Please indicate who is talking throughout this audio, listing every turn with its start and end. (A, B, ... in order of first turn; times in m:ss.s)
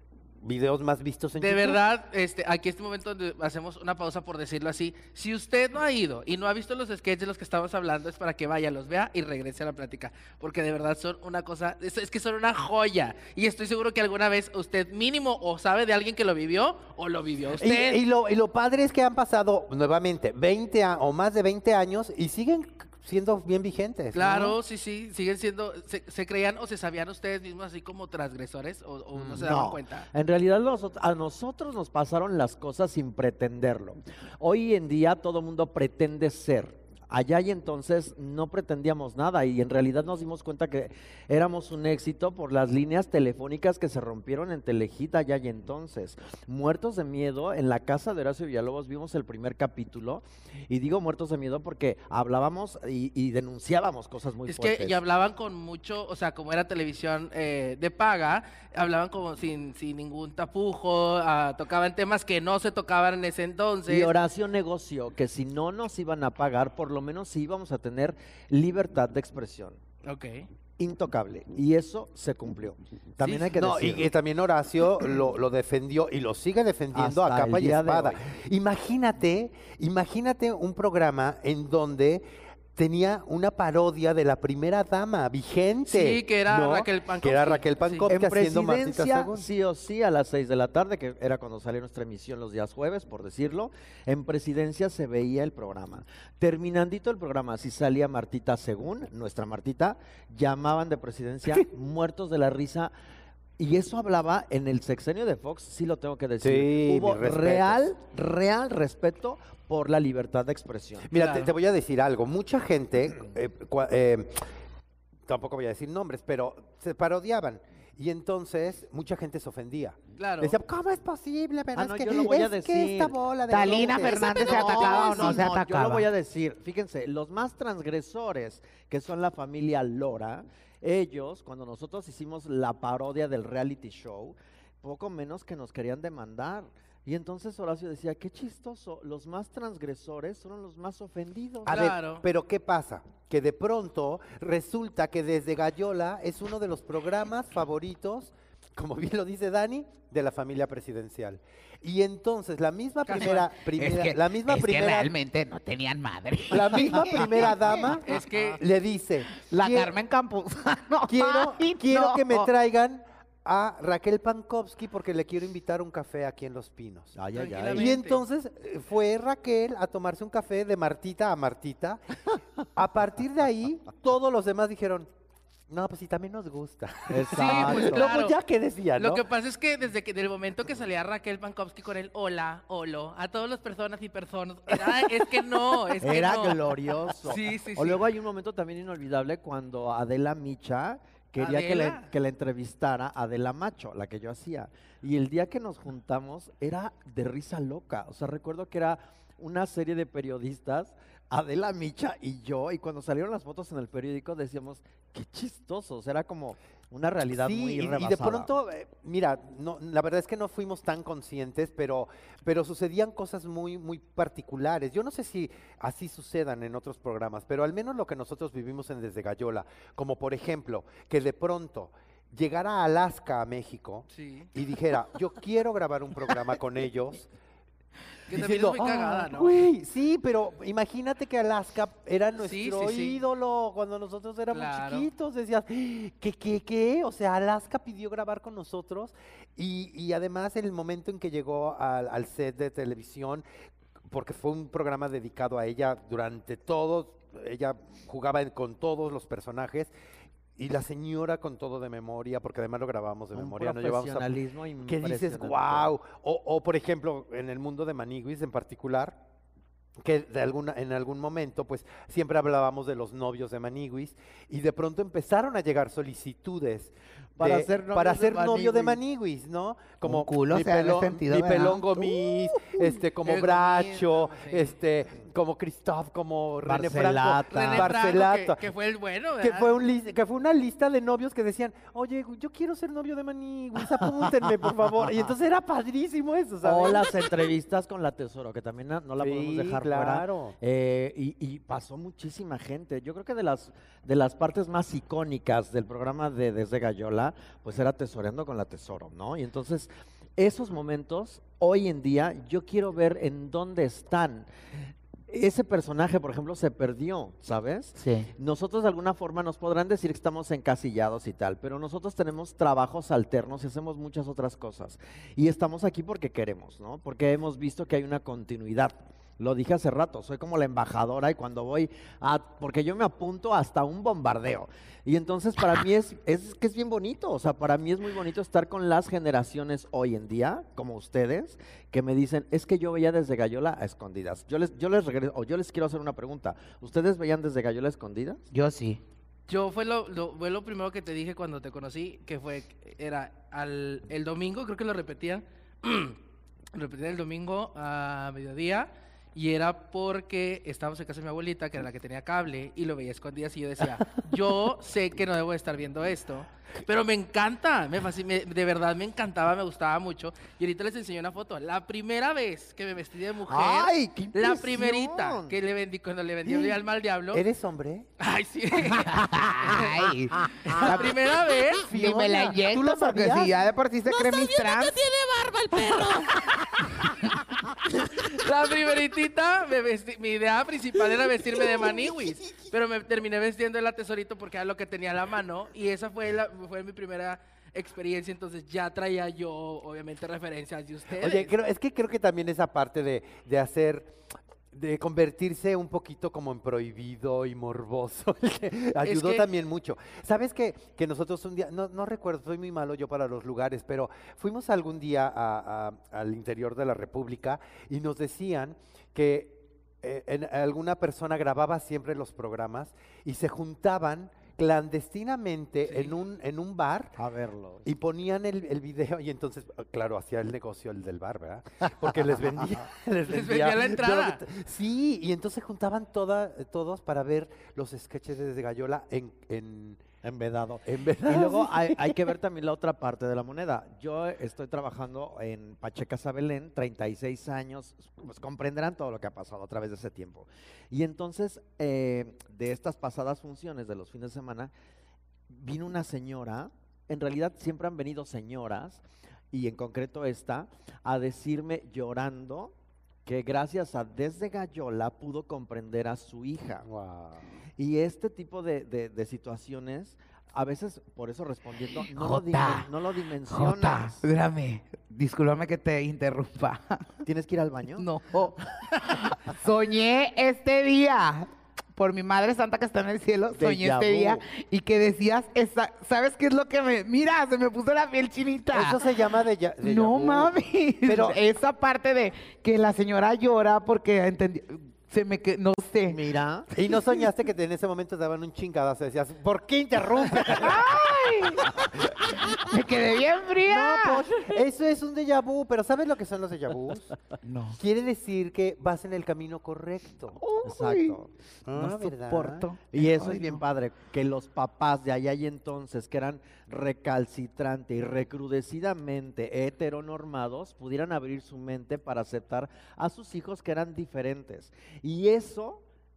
0:00.4-0:01.8 A
0:01.4-0:18.0 B
0:17.6-0:24.6 A
0:24.1-0:30.1 B
0:29.2-0:29.4 A
0:29.3-0:55.0 C
0:54.5-1:04.1 B
1:03.9-1:09.8 C
1:10.0-1:10.5 B
1:10.8-1:14.1 C
1:13.2-1:13.5 B
1:13.5-1:22.2 A
1:16.9-1:18.2 C
1:22.8-1:29.5 A
1:25.9-1:28.1 B
1:28.1-1:42.9 C
1:43.6-1:51.1 C
1:46.4-1:47.9 A
1:51.1-1:54.4 A
1:51.1-1:51.5 B
1:55.3-2:05.0 A
2:00.2-2:00.6 B
2:01.8-2:03.2 C
2:03.5-2:06.1 D
2:03.8-2:21.9 C
2:03.9-2:05.4 E
2:21.6-2:35.1 A
2:21.7-2:22.2 B
2:33.1-2:33.5 B
2:33.2-2:38.0 D
2:36.5-2:39.9 A
2:38.0-2:38.6 B
2:39.4-2:42.5 D
2:41.1-2:47.2 A
2:47.2-2:48.0 C
2:47.4-2:48.2 B
2:47.7-2:52.0 A
2:52.6-2:55.1 A
2:55.7-2:59.2 A
2:57.1-2:58.1 C
2:57.3-2:58.4 B
2:59.0-3:06.7 B
3:06.0-3:28.5 C
3:07.2-3:08.0 B
3:11.4-3:12.1 B
3:27.3-3:47.3 A
3:44.1-3:44.5 B
3:48.3-3:49.6 B
3:48.3-4:03.4 A
3:52.4-3:53.2 B
3:54.5-3:55.1 B
4:04.1-4:09.9 A
4:10.6-4:14.4 A
4:13.3-4:15.9 C
4:14.9-4:19.2 A
4:20.0-4:38.6 A
4:27.4-4:28.9 C
4:27.4-4:28.9 D
4:30.0-4:31.9 D
4:33.2-4:34.7 B
4:36.6-4:37.9 C
4:37.5-4:39.7 B
4:39.4-4:47.2 A
4:46.6-5:04.5 C
4:49.2-4:50.6 A
5:05.3-5:38.4 C
5:08.0-5:08.3 D
5:38.5-5:39.0 D
5:39.5-5:46.2 B
5:46.7-6:07.4 B
6:03.5-6:05.6 C
6:06.5-6:06.8 A
6:07.3-6:08.1 A
6:08.2-6:10.1 B
6:09.0-6:11.2 D
6:10.6-6:11.9 B
6:11.8-6:13.6 A
6:11.9-6:15.0 D
6:14.1-6:17.1 E
6:17.9-6:31.5 B
6:31.2-6:34.2 A
6:34.7-6:57.2 A
6:39.0-6:39.5 B
6:55.9-6:56.2 B
6:57.2-6:57.9 C
6:57.8-7:10.0 A
7:03.3-7:04.4 B
7:10.2-7:24.7 C
7:10.8-7:12.2 A
7:25.5-7:32.7 C
7:33.3-7:36.9 C
7:36.8-7:37.4 A
7:37.8-7:44.2 C
7:42.0-7:42.9 D
7:43.5-7:47.1 D
7:47.2-7:48.1 C
7:48.0-7:59.0 D
7:53.6-7:54.4 C
7:58.7-8:01.4 A
7:59.8-8:06.2 D
8:06.1-8:06.7 C
8:06.8-8:12.5 A
8:10.5-8:14.4 D
8:13.6-8:17.1 A
8:17.4-8:17.8 D
8:17.8-8:20.4 A
8:20.4-8:21.2 D
8:20.6-8:21.3 C
8:21.7-8:22.7 A
8:21.8-8:23.6 D
8:22.9-8:35.8 C